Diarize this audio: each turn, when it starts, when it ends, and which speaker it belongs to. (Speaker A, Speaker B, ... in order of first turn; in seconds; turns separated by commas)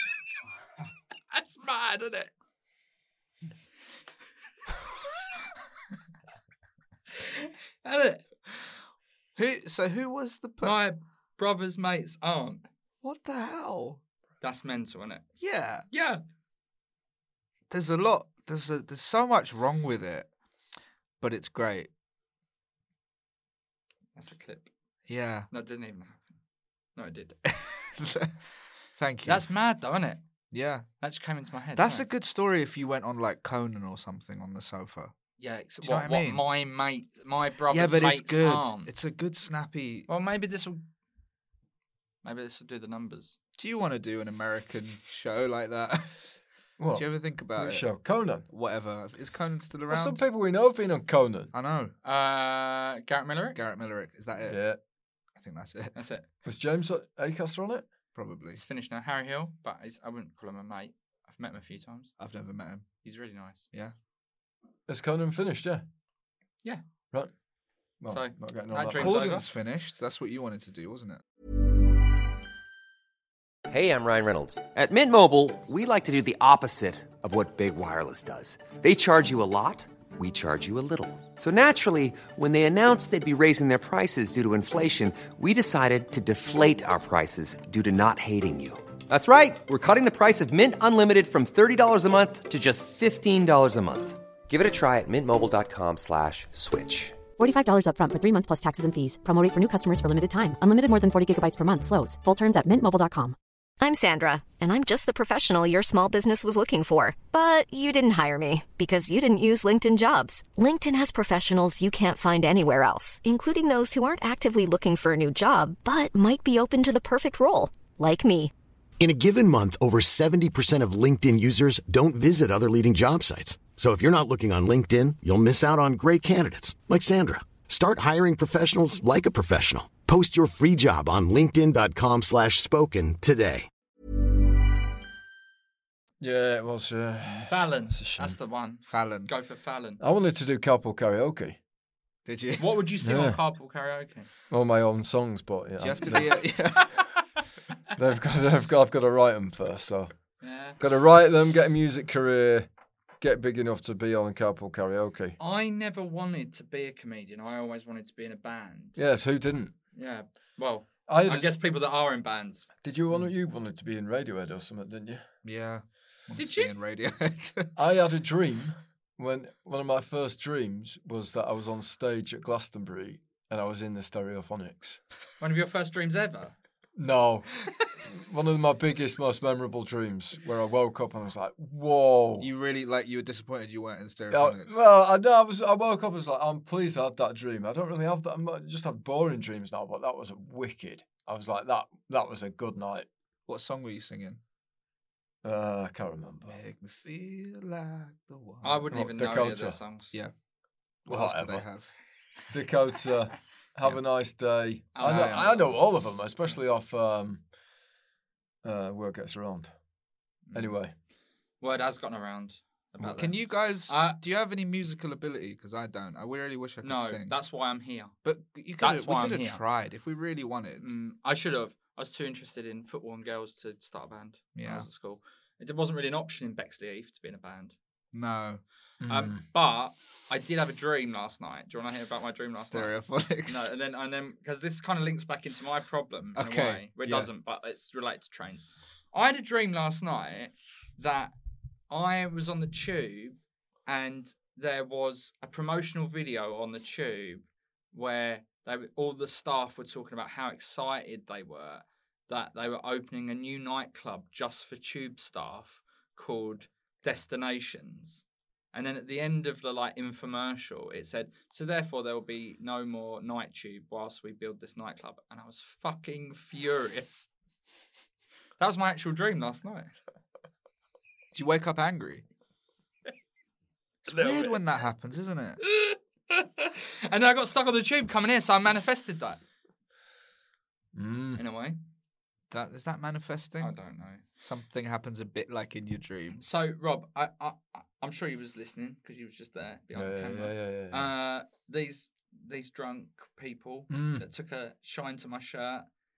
Speaker A: 1.3-2.3, Speaker A: 7.2-8.2, Speaker B: 9.4-10.8, Speaker A: 10.6-12.6, Speaker B: 13.0-14.0, Speaker A: 14.4-15.2, Speaker B: 15.4-15.9, Speaker A: 15.9-16.2, Speaker B: 17.7-20.3, Speaker B: 21.2-21.9, Speaker A: 24.2-24.7, Speaker B: 25.1-25.5, Speaker A: 25.5-26.3, Speaker A: 27.0-27.4, Speaker B: 27.5-28.4, Speaker B: 28.9-29.5, Speaker A: 29.3-30.2, Speaker B: 30.5-30.9, Speaker A: 31.0-32.1, Speaker B: 31.8-35.1, Speaker A: 35.4-38.9, Speaker B: 35.8-36.4, Speaker B: 37.7-40.1, Speaker A: 40.1-40.8, Speaker A: 42.2-43.4, Speaker B: 43.6-46.4, Speaker C: 46.8-48.5, Speaker B: 46.9-50.2, Speaker C: 49.9-51.5, Speaker B: 51.5-51.9, Speaker A: 52.0-53.6, Speaker B: 53.5-54.6, Speaker C: 54.5-54.8, Speaker B: 55.4-56.0, Speaker A: 56.0-56.3, Speaker C: 56.4-57.9, Speaker B: 58.1-58.6, Speaker A: 58.5-62.1, Speaker B: 62.2-63.0, Speaker A: 63.0-63.7, Speaker C: 64.9-65.8, Speaker C: 68.0-69.3, Speaker A: 68.1-69.5, Speaker B: 69.0-71.2, Speaker D: 73.7-97.2, Speaker E: 97.4-103.4, Speaker F: 103.8-118.5, Speaker G: 119.0-133.7, Speaker C: 136.2-138.4, Speaker A: 137.5-140.0, Speaker B: 138.9-139.3, Speaker C: 140.0-141.6, Speaker B: 142.3-142.7, Speaker A: 142.6-144.3, Speaker C: 143.0-143.4, Speaker C: 144.5-146.6, Speaker B: 145.8-146.9, Speaker C: 147.9-150.1, Speaker A: 150.4-150.8, Speaker C: 150.8-152.7, Speaker C: 153.2-155.4, Speaker A: 155.4-159.0, Speaker C: 159.0-159.7, Speaker A: 159.9-162.7, Speaker C: 161.1-161.5, Speaker C: 162.8-165.3, Speaker B: 165.4-167.8, Speaker A: 166.4-166.7, Speaker C: 167.8-175.0, Speaker A: 175.4-176.6, Speaker C: 177.0-177.5, Speaker C: 178.1-182.5, Speaker B: 182.4-184.8, Speaker C: 184.3-193.1, Speaker B: 193.5-194.4, Speaker C: 195.4-196.6, Speaker B: 196.5-198.9, Speaker A: 198.6-200.1, Speaker C: 198.9-199.8, Speaker B: 201.1-201.9, Speaker C: 201.1-201.7, Speaker C: 202.5-207.4, Speaker A: 204.9-205.8, Speaker B: 205.0-205.7, Speaker C: 208.6-209.7, Speaker A: 210.5-210.8, Speaker C: 210.5-210.9, Speaker A: 211.6-214.4, Speaker B: 213.0-217.4, Speaker A: 216.8-218.1, Speaker B: 218.2-220.9, Speaker A: 218.8-219.6, Speaker A: 220.8-227.8, Speaker B: 224.6-224.9, Speaker B: 228.1-228.6, Speaker C: 229.0-229.4, Speaker A: 229.1-232.9, Speaker B: 232.6-233.7, Speaker A: 233.4-241.3, Speaker B: 236.3-236.9, Speaker C: 237.0-237.3, Speaker A: 241.9-267.3, Speaker A: 268.6-269.9, Speaker B: 271.3-272.2, Speaker B: 274.1-275.6, Speaker A: 274.1-274.6, Speaker A: 275.6-279.4, Speaker C: 280.9-281.4, Speaker A: 281.4-281.8, Speaker B: 282.5-283.8, Speaker A: 283.6-284.2, Speaker B: 284.4-286.4, Speaker A: 286.4-295.9, Speaker C: 289.9-291.1, Speaker C: 293.9-294.2